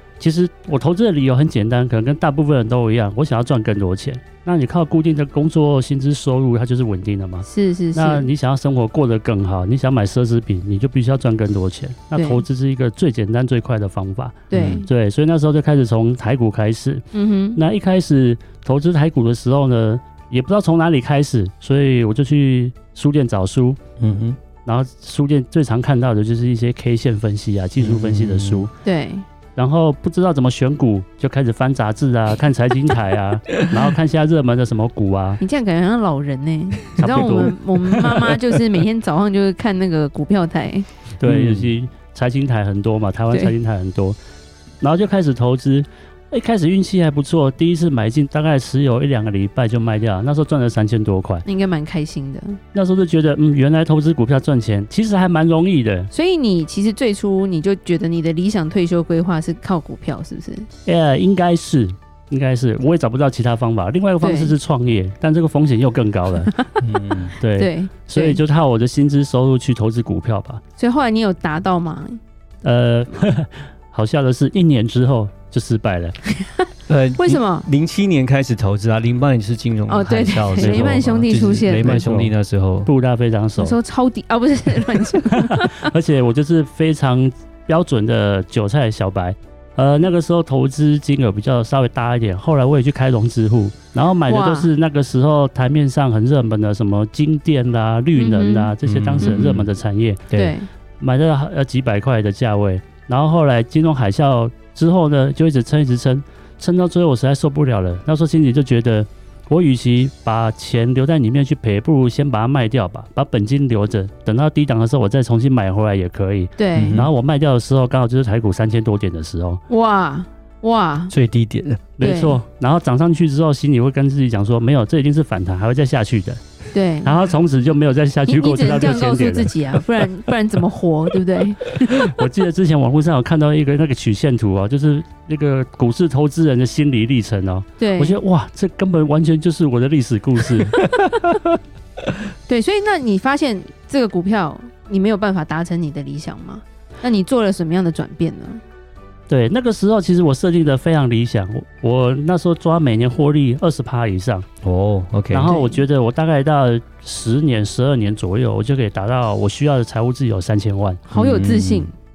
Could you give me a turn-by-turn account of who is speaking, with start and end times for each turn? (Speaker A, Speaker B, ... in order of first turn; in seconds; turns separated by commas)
Speaker A: 0.2-23.8, Speaker B: 7.5-8.3, Speaker B: 12.2-12.4, Speaker B: 14.5-14.9, Speaker C: 14.5-14.9, Speaker B: 17.1-17.6, Speaker C: 24.0-24.4, Speaker A: 24.6-28.7, Speaker C: 27.8-28.7, Speaker B: 28.8-29.3, Speaker A: 29.6-35.4, Speaker B: 35.4-40.9, Speaker A: 36.9-37.5, Speaker A: 41.2-44.2, Speaker C: 41.2-41.7, Speaker A: 44.8-51.4, Speaker B: 51.5-52.6, Speaker A: 52.7-56.1, Speaker B: 56.1-60.7, Speaker A: 60.9-66.7, Speaker B: 64.2-64.5, Speaker C: 66.8-67.3, Speaker B: 67.2-68.4, Speaker A: 67.4-70.6, Speaker B: 70.8-72.2, Speaker A: 72.6-76.2, Speaker B: 76.3-77.7, Speaker C: 76.9-82.9, Speaker B: 79.9-82.0, Speaker A: 80.6-81.1, Speaker A: 81.7-83.8, Speaker B: 83.6-85.9, Speaker A: 85.2-100.3, Speaker B: 94.3-94.7, Speaker B: 98.2-99.5, Speaker C: 98.8-99.7, Speaker B: 100.3-100.7, Speaker A: 101.0-119.6, Speaker B: 116.6-117.0, Speaker C: 116.8-117.1, Speaker B: 119.7-121.1, Speaker C: 121.1-122.0, Speaker A: 122.0-126.4, Speaker B: 122.0-122.4, Speaker B: 126.7-127.2, Speaker A: 127.0-129.5, Speaker B: 128.3-131.8, Speaker A: 131.8-140.9, Speaker B: 137.8-138.2, Speaker C: 140.8-141.1, Speaker B: 142.5-148.6, Speaker A: 149.3-154.4, Speaker C: 154.6-155.5, Speaker A: 155.3-161.0, Speaker B: 155.4-155.8, Speaker B: 161.1-161.9, Speaker C: 161.2-161.9